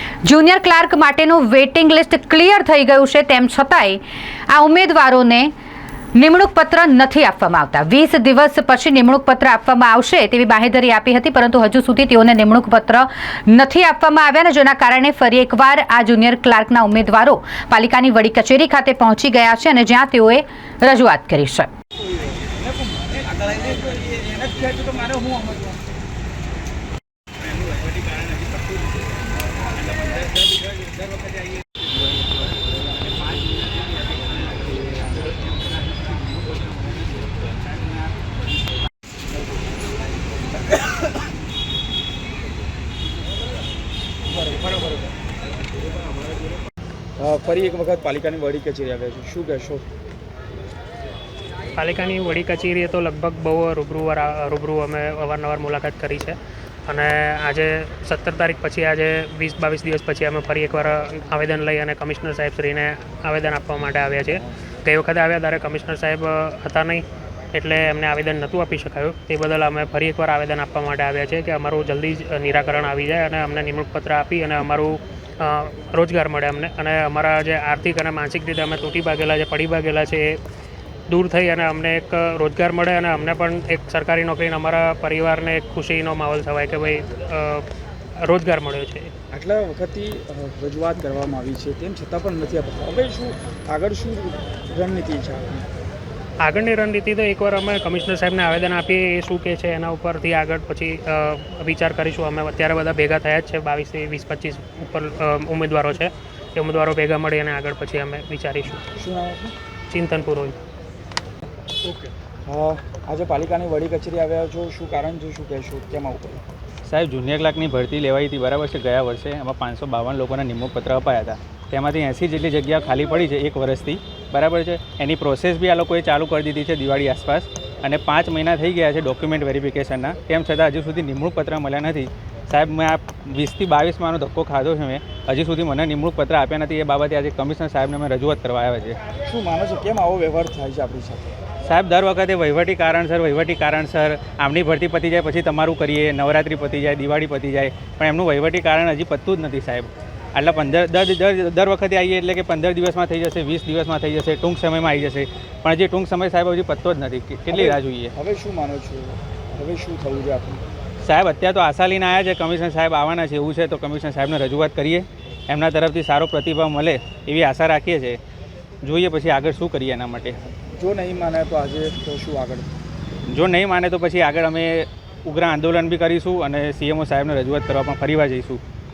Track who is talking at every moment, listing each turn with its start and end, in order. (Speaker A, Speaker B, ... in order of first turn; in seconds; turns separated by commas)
Speaker A: 0.2-5.5, Speaker A: 6.1-21.7, Speaker B: 22.5-25.8, Speaker C: 27.5-28.8, Speaker C: 29.8-31.6, Speaker B: 44.3-45.0, Speaker B: 47.2-49.8, Speaker D: 51.7-80.4, Speaker D: 81.1-87.6, Speaker D: 88.2-89.1, Speaker B: 89.3-95.7, Speaker D: 96.4-108.8, Speaker B: 109.0-109.5, Speaker D: 109.9-110.5, Speaker B: 112.4-116.4, Speaker C: 116.8-139.0, Speaker B: 139.2-141.3, Speaker C: 141.6-158.1, Speaker B: 157.5-160.6, Speaker C: 161.0-168.2, Speaker C: 168.8-170.4, Speaker B: 170.8-172.7, Speaker C: 173.3-178.6